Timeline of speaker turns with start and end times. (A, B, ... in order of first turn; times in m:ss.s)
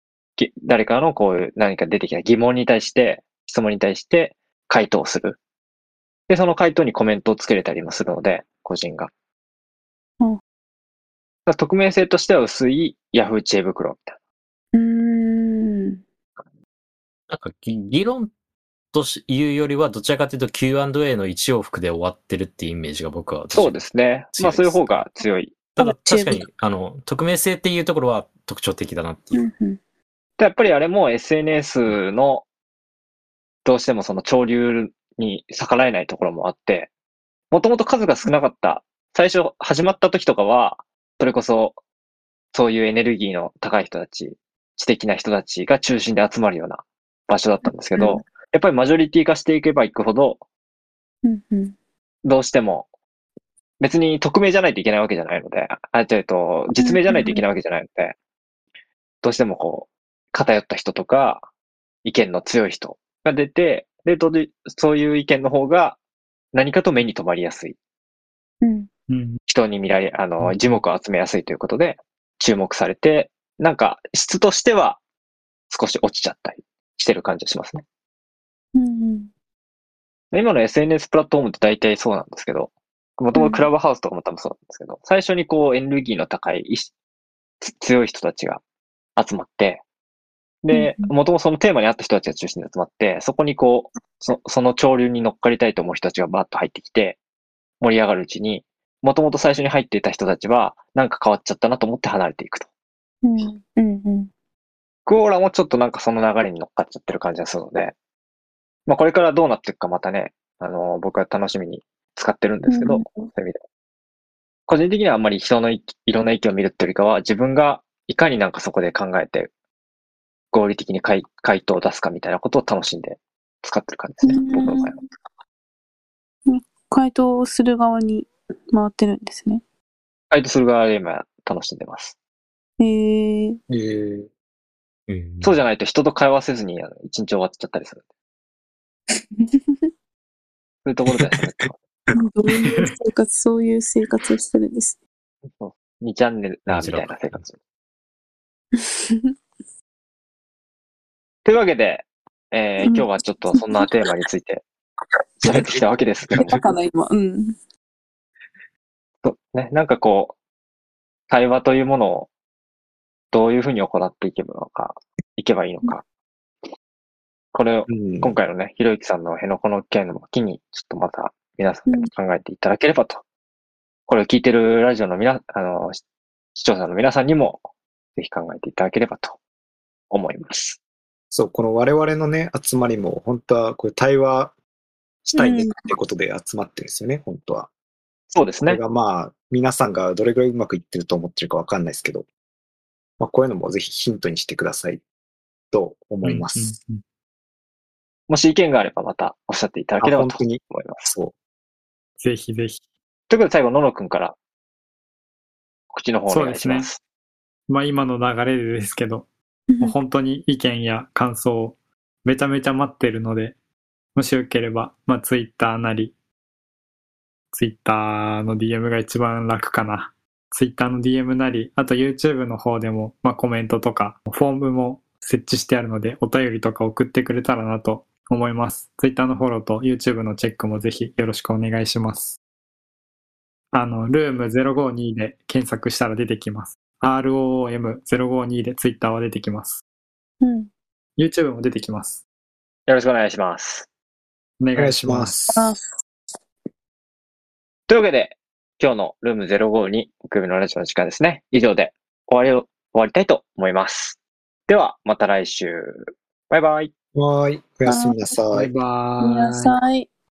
0:00.4-0:05.4 A
0:06.3-0:09.1 A
0:11.5-0:14.2 A
0:14.7-0:16.0 B
0:17.3-0:18.3 C
0:18.9-0:23.8 C
0:23.5-0:25.6 A
0:24.4-0:25.1 C
0:25.8-0:29.4 C
0:25.8-0:26.4 B
0:29.3-0:29.8 B
0:30.4-0:32.5 A
0:33.6-0:36.9 A
0:37.5-0:41.8 A
0:42.5-0:50.4 A
0:48.0-0:48.2 B
0:51.2-0:51.8 B
0:52.2-0:52.9 A
0:53.8-0:58.2 A
0:56.8-0:57.4 B
0:59.2-1:01.5 A
1:02.0-1:06.0 A
1:06.5-1:07.8 A
1:08.6-1:08.9 B
1:09.1-1:09.4 D
1:09.5-1:15.0 A
1:15.7-1:17.8 A
1:18.8-1:19.3 B
1:20.3-1:26.9 A
1:23.3-1:23.7 B
1:27.6-1:28.6 A
1:29.2-1:29.8 A
1:30.6-1:37.2 A
1:30.7-1:31.1 B
1:37.8-1:42.7 A
1:43.2-1:44.3 B
1:45.1-1:48.0 A
1:48.9-1:53.6 A
1:52.7-1:53.3 B
1:54.7-1:59.5 A
2:00.5-2:04.9 A
2:04.2-2:05.0 B
2:06.5-2:09.6 B
2:10.3-2:12.2 A
2:12.8-2:13.6 B
2:13.7-2:14.3 E
2:15.1-2:15.6 C
2:15.4-2:18.0 A
2:19.1-2:19.4 B
2:20.8-2:21.8 A
2:22.2-2:25.0 B
2:25.6-2:27.6 A
2:26.7-2:27.4 C
2:28.8-2:29.2 B
2:31.4-2:34.6 A
2:32.8-2:33.9 B
2:35.4-2:36.6 A
2:36.3-2:37.5 B
2:39.2-2:40.4 A
2:41.3-2:42.3 A
2:43.3-2:46.0 A
2:47.5-2:53.2 A
2:47.9-2:48.4 E
2:54.1-2:56.0 A
2:56.6-2:57.6 A
2:58.2-2:59.4 A
3:00.1-3:00.8 A
3:01.3-3:04.5 E
3:05.2-3:07.7 E
3:05.4-3:05.9 B
3:08.3-3:08.8 A
3:08.7-3:12.3 E
3:13.2-3:15.0 E
3:15.7-3:16.8 E
3:16.2-3:17.0 D
3:18.3-3:21.1 A
3:20.0-3:21.3 E
3:22.2-3:22.8 D
3:23.3-3:24.4 A
3:25.9-3:27.0 A
3:26.3-3:26.9 D
3:27.7-3:33.6 D
3:29.7-3:30.0 B
3:34.1-3:36.2 D
3:37.5-3:52.4 D
3:53.7-3:59.8 D
4:00.4-4:00.7 B
4:01.2-4:02.2 D
4:02.9-4:03.9 A
4:04.6-4:05.7 D
4:04.8-4:05.5 E
4:05.5-4:05.8 B
4:07.9-4:16.9 A
4:17.2-4:18.7 E
4:17.9-4:18.2 B
4:18.5-4:19.7 D
4:19.2-4:20.1 B